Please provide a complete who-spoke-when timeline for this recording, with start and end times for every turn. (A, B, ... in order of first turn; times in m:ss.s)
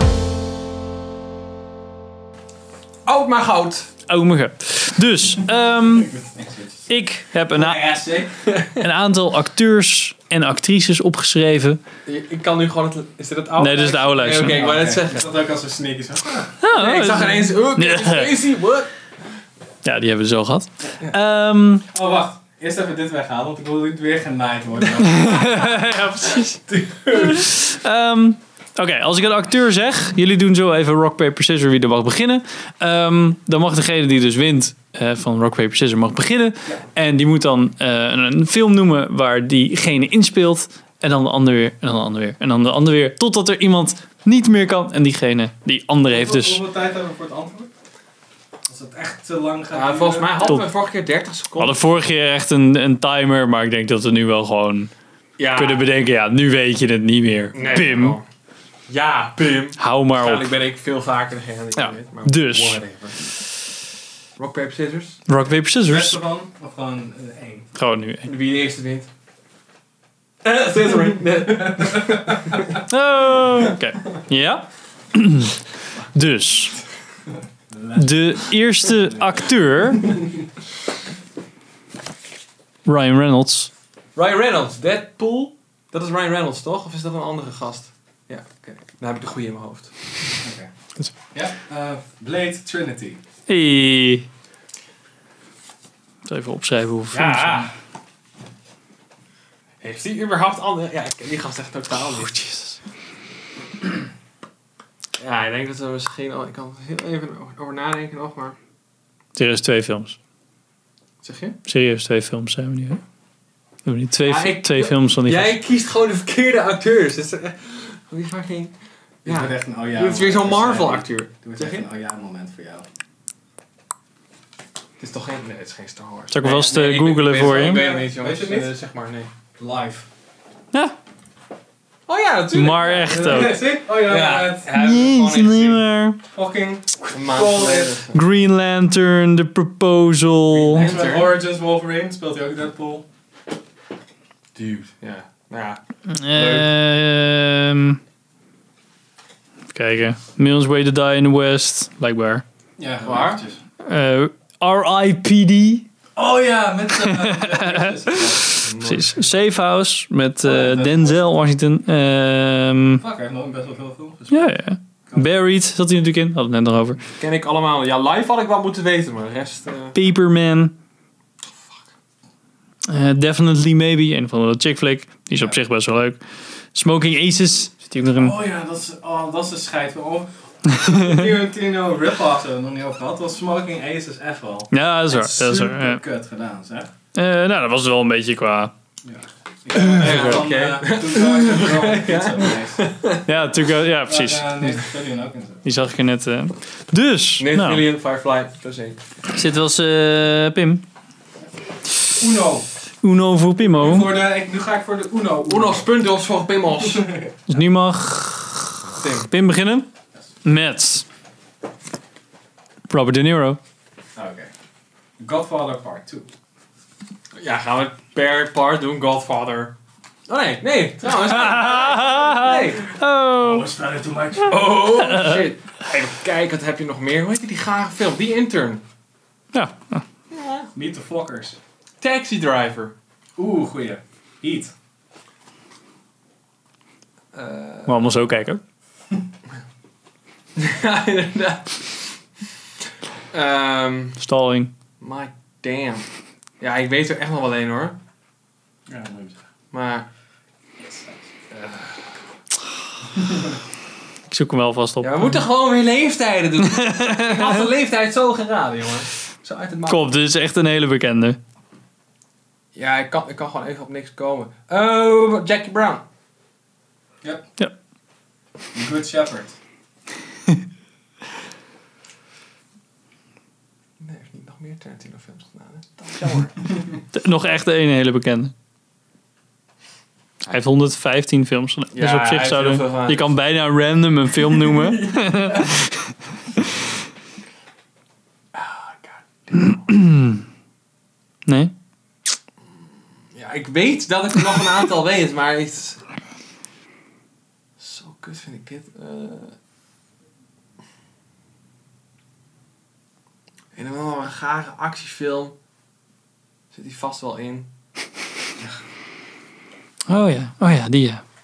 0:03.0-0:03.9 A
0:04.1-0:06.1 B
0:05.8-0:06.9 C
0:06.9-0:07.9 B
0:07.5-0:08.4 C
0:08.4-0:08.8 A
0:08.8-0:11.8 B
0:12.0-0:15.2 A
0:13.6-0:14.6 B
0:14.4-0:16.5 C
0:16.6-0:18.3 B
0:16.7-0:18.9 A
0:19.8-0:21.8 B
0:21.9-0:25.7 C
0:25.0-0:46.6 B
0:26.4-0:27.5 C
0:46.0-0:47.7 C
0:48.7-0:50.6 C
0:49.7-0:52.0 A
0:51.6-0:54.9 B
0:55.4-0:55.9 A
0:55.5-0:58.2 B
0:57.5-0:58.2 A
0:58.9-1:03.2 A
0:59.8-1:00.5 B
1:01.8-1:02.8 B
1:04.4-1:05.2 A
1:05.3-1:06.2 B
1:05.8-1:07.7 C
1:07.8-1:08.3 B
1:08.2-1:09.1 A
1:10.4-1:12.8 A
1:12.8-1:15.6 B
1:16.1-1:16.8 B
1:17.7-1:19.2 C
1:17.9-1:20.2 B
1:22.8-1:23.7 B
1:24.1-1:29.9 A
1:30.4-1:30.7 C
1:31.3-1:33.2 C
1:33.5-1:34.3 B
1:36.2-1:37.7 B
1:37.1-1:37.7 A
1:39.8-1:42.4 A
1:42.1-1:42.8 B
1:45.2-1:48.6 A
1:49.4-1:50.2 B
1:51.2-1:51.6 A
1:51.6-1:53.0 B
1:53.8-1:55.6 B
1:54.2-2:01.9 A
1:59.2-2:02.8 C
2:05.0-2:09.3 A
2:06.3-2:07.9 B
2:07.4-2:08.7 C
2:09.6-2:10.1 C
2:12.1-2:15.8 A
2:12.5-2:13.6 B
2:13.1-2:14.7 C
2:14.7-2:16.2 B
2:16.3-2:18.0 C
2:17.1-2:18.2 A
2:18.1-2:20.9 B
2:20.5-2:21.4 A
2:20.7-2:23.0 C
2:24.5-2:26.7 A
2:26.1-2:28.0 B
2:29.7-2:32.4 B
2:32.8-2:33.6 C
2:33.0-2:33.4 A
2:33.8-2:35.9 B
2:36.2-2:38.6 C
2:37.0-2:43.0 B
2:38.5-2:39.3 A
2:40.4-2:41.4 C
2:43.0-2:44.5 C
2:44.3-2:47.0 B
2:47.2-2:50.0 A
2:49.9-2:50.7 B
2:51.5-2:51.8 A
2:52.8-2:56.2 B
2:56.7-2:58.4 B
2:58.1-3:06.9 C
3:04.7-3:06.0 B
3:07.1-3:08.7 B
3:09.0-3:12.8 C
3:09.7-3:13.3 A
3:10.0-3:10.5 B
3:13.2-3:14.9 B
3:14.0-3:15.6 C
3:15.6-3:17.9 B
3:17.4-3:19.0 A
3:19.3-3:20.8 B
3:22.2-3:22.7 C
3:23.0-3:24.1 B
3:23.7-3:25.9 C
3:25.4-3:27.1 A
3:26.8-3:27.3 C
3:27.5-3:29.9 B
3:29.0-3:29.3 A
3:30.4-3:31.0 B
3:32.9-3:33.6 B
3:34.2-3:34.5 C
3:35.2-3:36.3 C
3:37.4-3:39.7 A
3:40.3-3:42.8 A
3:41.2-3:43.7 B
3:42.0-3:42.7 C
3:43.4-3:45.0 C
3:44.4-3:48.8 A
3:45.0-3:45.4 B
3:49.5-3:50.0 B
3:50.3-3:50.7 A
3:50.7-3:51.6 C
3:52.0-3:52.9 A
3:53.4-3:54.7 C
3:57.3-3:58.3 A
3:57.8-3:58.6 B
4:00.6-4:02.1 A
4:03.3-4:04.2 A
4:04.2-4:04.7 B
4:05.0-4:06.0 A
4:06.6-4:08.0 A
4:08.9-4:09.4 C
4:09.7-4:10.1 A
4:10.8-4:11.2 C
4:11.5-4:12.1 A
4:13.2-4:13.5 C
4:14.3-4:15.2 B
4:15.0-4:20.1 A
4:16.6-4:17.5 B
4:19.9-4:21.4 B
4:22.7-4:26.0 A
4:28.7-4:29.5 C
4:34.0-4:36.8 A
4:37.1-4:38.5 B
4:40.4-4:46.1 B
4:41.9-4:43.3 A
4:48.5-4:49.8 A
4:49.5-4:50.4 B
4:51.4-4:51.7 B
4:53.3-4:56.0 A
4:57.8-4:59.5 A
5:03.7-5:05.6 A
5:06.7-5:07.7 A
5:10.1-5:11.2 B